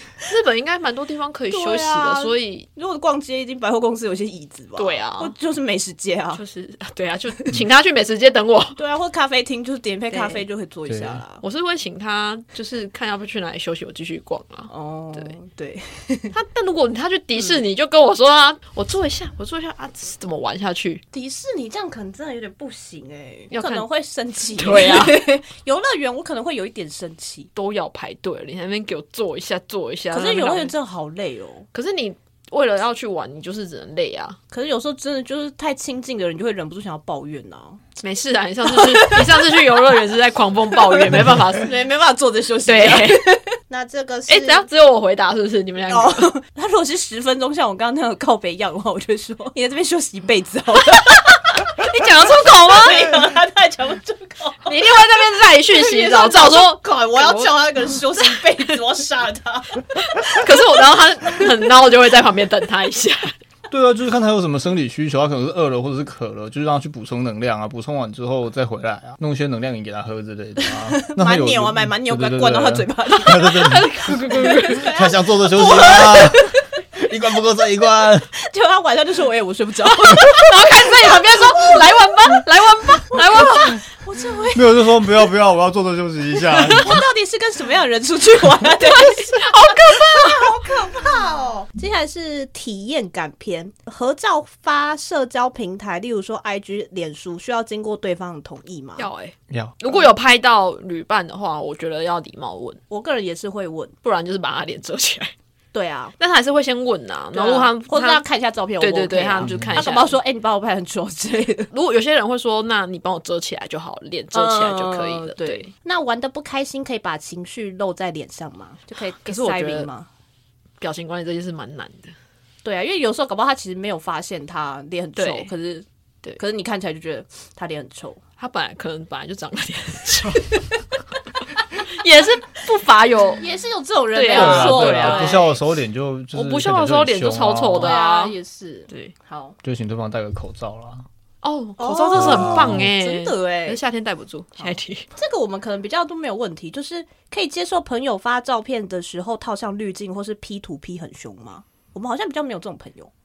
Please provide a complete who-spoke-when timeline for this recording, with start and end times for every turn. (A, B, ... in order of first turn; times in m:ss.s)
0:00.2-0:02.7 A
0:01.5-0:06.4 B
0:04.8-0:05.3 A
0:06.4-0:08.8 A
0:08.8-0:11.4 B
0:10.1-0:10.4 A
0:10.9-0:11.2 C
0:11.4-0:15.4 A
0:14.7-0:16.3 B
0:16.3-0:21.0 A
0:21.1-0:27.5 B
0:23.5-0:23.8 A
0:24.5-0:25.3 A
0:27.6-0:30.8 A
0:30.1-0:31.7 B
0:31.7-0:34.4 A
0:34.5-0:37.8 B
0:38.0-0:41.7 A
0:38.7-0:39.9 B
0:40.8-0:44.6 B
0:42.6-0:43.3 A
0:44.3-0:46.4 A
0:45.9-0:54.9 B
0:51.8-0:53.1 A
0:54.7-0:58.4 A
0:55.7-1:00.6 B
1:00.0-1:03.3 A
1:03.7-1:18.3 C
1:10.9-1:16.7 B
1:13.4-1:14.9 A
1:18.4-1:21.8 B
1:19.9-1:23.8 A
1:23.1-1:24.7 B
1:24.5-1:27.0 C
1:26.6-1:26.9 A
1:26.7-1:39.1 B
1:28.8-1:30.8 A
1:39.0-1:42.8 A
1:39.5-1:39.8 C
1:42.9-1:43.9 B
1:44.0-1:45.3 A
1:45.7-1:46.2 B
1:46.2-1:48.2 A
1:47.3-1:51.7 B
1:48.8-1:50.2 A
1:49.4-1:49.8 C
1:51.7-1:55.7 A
1:54.3-2:00.1 B
1:59.2-1:59.9 A
2:00.8-2:02.2 A
2:02.6-2:05.9 B
2:05.2-2:05.5 A
2:06.4-2:08.2 B
2:08.4-2:10.8 A
2:11.8-2:13.4 A
2:13.4-2:15.6 B
2:14.1-2:15.5 A
2:14.3-2:18.0 C
2:16.3-2:18.4 A
2:17.8-2:19.6 B
2:19.6-2:21.0 C
2:21.4-2:25.1 A
2:21.8-2:23.8 B
2:22.1-2:22.9 C
2:24.6-2:33.1 B